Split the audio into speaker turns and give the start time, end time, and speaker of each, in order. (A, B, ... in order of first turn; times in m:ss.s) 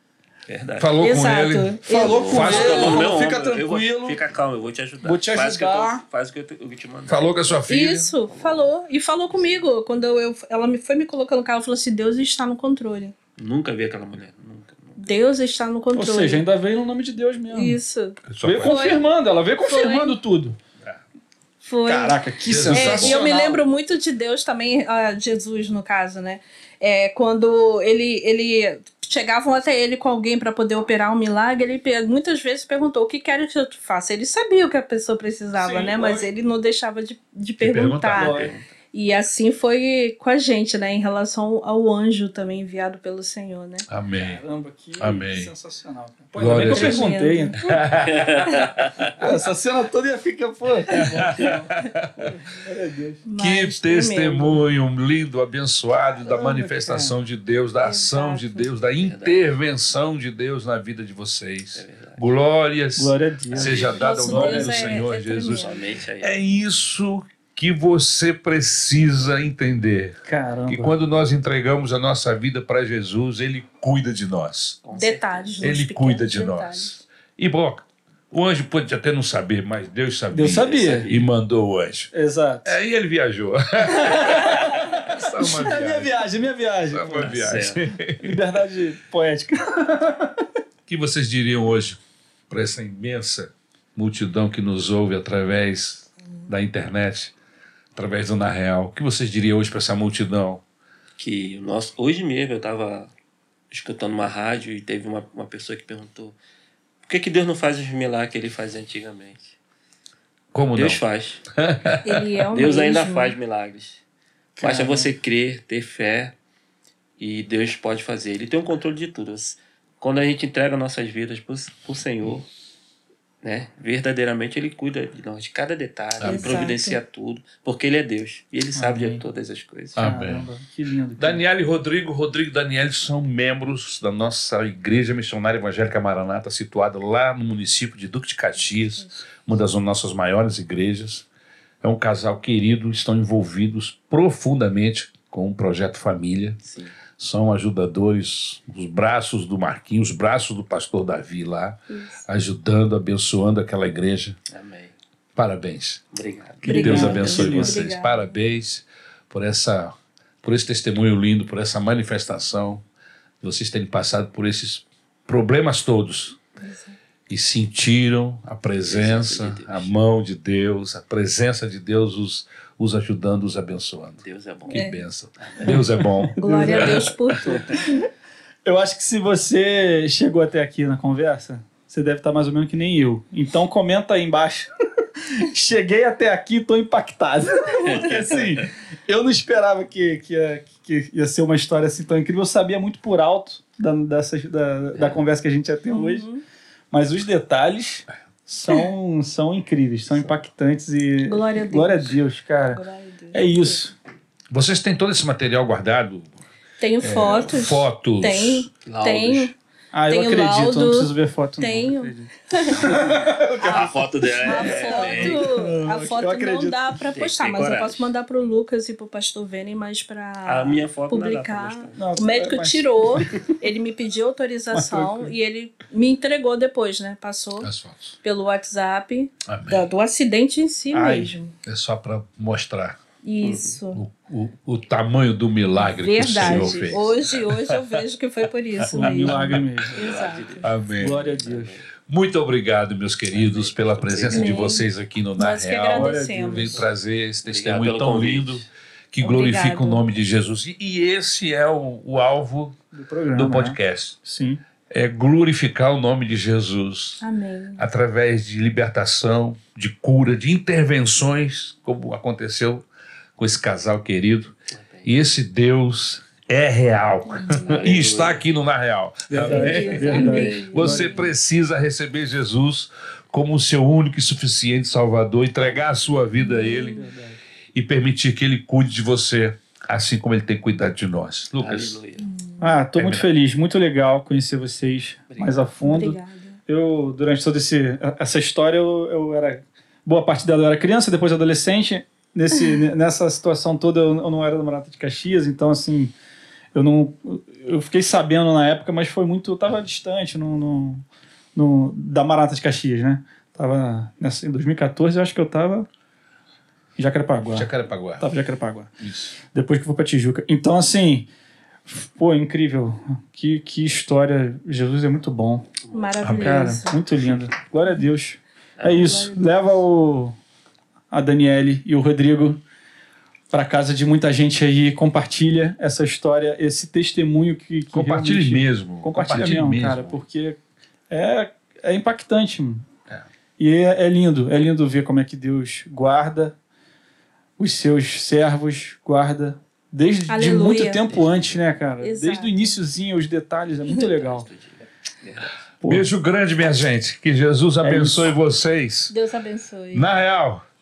0:00.5-0:01.1 A
0:00.8-0:03.2 B
0:01.0-0:03.0 C
0:01.8-0:04.2 D
0:01.9-0:07.6 A
0:05.0-0:06.0 D
0:07.1-0:08.1 B
0:07.7-0:13.1 C
0:08.2-0:08.7 A
0:13.4-0:15.0 A
0:15.0-0:16.4 C
0:15.9-0:17.8 D
0:17.5-0:19.0 C
0:18.2-0:19.0 B
0:18.4-0:20.6 D
0:19.6-0:20.2 C
0:21.6-0:43.9 C
0:21.8-0:23.6 D
0:22.4-0:23.2 B
0:35.5-0:36.3 D
0:37.6-0:38.4 B
0:38.1-0:38.5 D
0:38.3-0:38.7 A
0:43.9-0:44.4 B
0:44.1-0:47.7 D
0:45.0-0:45.5 B
0:46.4-0:47.1 B
0:46.5-0:47.8 C
0:47.6-0:48.5 B
0:48.0-0:49.1 A
0:48.4-0:48.7 C
0:49.2-0:53.2 D
0:50.9-0:51.2 C
0:51.2-0:52.4 B
0:53.2-0:54.6 C
0:53.4-1:14.8 B
0:56.2-0:57.1 D
0:57.8-0:58.7 C
0:59.0-0:59.4 A
1:01.8-1:02.2 A
1:03.0-1:04.7 D
1:03.5-1:04.0 A
1:03.9-1:05.8 C
1:05.4-1:06.4 A
1:10.2-1:11.0 D
1:14.8-1:15.7 A
1:14.9-1:17.0 C
1:15.6-1:22.1 B
1:20.3-1:21.1 D
1:20.4-1:21.3 A
1:22.1-1:22.7 D
1:22.6-1:26.2 B
1:23.9-1:27.6 D
1:26.9-1:28.4 B
1:27.2-1:27.8 A
1:28.2-1:30.4 D
1:30.9-1:32.0 B
1:32.5-1:37.3 B
1:37.9-1:40.6 B
1:41.2-1:43.1 A
1:43.7-1:46.4 A
1:47.0-1:49.6 A
1:50.5-1:51.0 B
1:50.7-1:51.4 A
1:51.6-1:52.2 B
1:52.0-1:53.4 C
1:52.5-1:54.0 A
1:54.6-1:56.3 A
1:54.6-1:55.1 D
1:57.2-2:02.5 A
2:03.4-2:10.1 A
2:06.2-2:06.6 B
2:06.2-2:07.0 C
2:08.7-2:09.2 D
2:10.0-2:10.5 B
2:10.0-2:11.4 D
2:11.2-2:21.2 B
2:21.8-2:26.6 B
2:26.6-2:27.0 A
2:27.1-2:34.4 B
2:31.9-2:32.2 C
2:34.5-2:34.9 A
2:35.4-2:36.0 B
2:36.1-2:37.5 A
2:36.6-2:37.8 D
2:36.6-2:38.4 C
2:36.7-2:42.8 B
2:43.4-2:46.4 B
2:46.6-2:47.0 C
2:47.3-2:57.2 B
2:48.8-2:50.0 A
2:54.2-2:54.8 A
2:54.7-2:55.0 C
2:55.4-2:55.8 A
2:55.6-2:58.0 D
2:56.4-2:57.7 C
2:58.6-3:04.7 D
3:05.4-3:16.3 D
3:07.8-3:08.4 A
3:14.9-3:15.2 A
3:15.9-3:16.4 C
3:16.9-3:23.9 D
3:20.1-3:20.4 A
3:21.2-3:22.2 C
3:22.7-3:23.8 C
3:24.5-3:26.4 B
3:26.8-3:29.5 C
3:27.0-3:28.7 B
3:28.8-3:29.5 A
3:29.9-3:37.0 D
3:30.1-3:47.7 C
3:32.9-3:35.5 A
3:37.1-3:38.1 A
3:40.4-3:42.0 A
3:42.0-3:43.5 D
3:44.7-3:45.3 D
3:47.6-3:48.2 B
3:48.2-3:51.6 C
3:49.4-3:49.9 B
3:50.9-3:51.3 D
3:51.6-3:53.0 B
3:53.2-3:54.0 C
3:53.4-3:53.8 A
3:53.9-3:57.8 B
3:55.8-4:00.7 C
3:56.4-3:57.3 A
3:58.8-3:59.6 B
3:59.0-4:00.0 D
3:59.9-4:01.9 A
4:00.6-4:01.2 B
4:01.0-4:01.8 D
4:02.1-4:12.8 B
4:03.3-4:04.8 A
4:04.3-4:06.8 C
4:05.9-4:06.8 D
4:07.4-4:08.6 A
4:09.2-4:10.0 C
4:12.9-4:14.6 D
4:13.3-4:14.2 B
4:14.9-4:17.2 B
4:17.2-4:17.9 C
4:17.8-4:22.8 B
4:23.4-4:37.0 B
4:24.7-4:25.1 A
4:27.2-4:27.8 C
4:27.5-4:28.5 A
4:29.3-4:31.2 D
4:29.4-4:31.3 C
4:35.6-4:36.2 A
4:36.4-4:37.1 C
4:36.6-4:37.4 D
4:37.7-4:42.0 B
4:41.6-4:42.2 A
4:42.2-4:42.8 C
4:42.6-4:56.1 D
4:43.0-4:43.3 B
4:45.3-4:45.7 A
4:45.8-4:46.6 C
4:56.7-5:01.0 D
5:01.5-5:05.9 D
5:07.0-5:08.9 D
5:07.5-5:08.3 B
5:09.0-5:09.3 B
5:09.5-5:11.2 D
5:11.9-5:15.7 D
5:15.8-5:16.5 A
5:15.9-5:17.0 C
5:16.2-5:20.4 D
5:18.8-5:19.2 A
5:18.8-5:19.5 C
5:21.1-5:22.6 D
5:23.5-5:30.6 D
5:27.9-5:30.2 B
5:31.1-5:32.8 D
5:33.6-5:36.6 D
5:37.6-5:44.5 D
5:40.3-5:41.0 C
5:41.0-5:41.6 A
5:42.0-5:42.8 C
5:43.9-5:45.6 A
5:45.8-5:46.1 D
5:45.8-5:49.1 B
5:47.8-5:48.3 D
5:49.1-5:50.1 C
5:49.9-5:50.6 B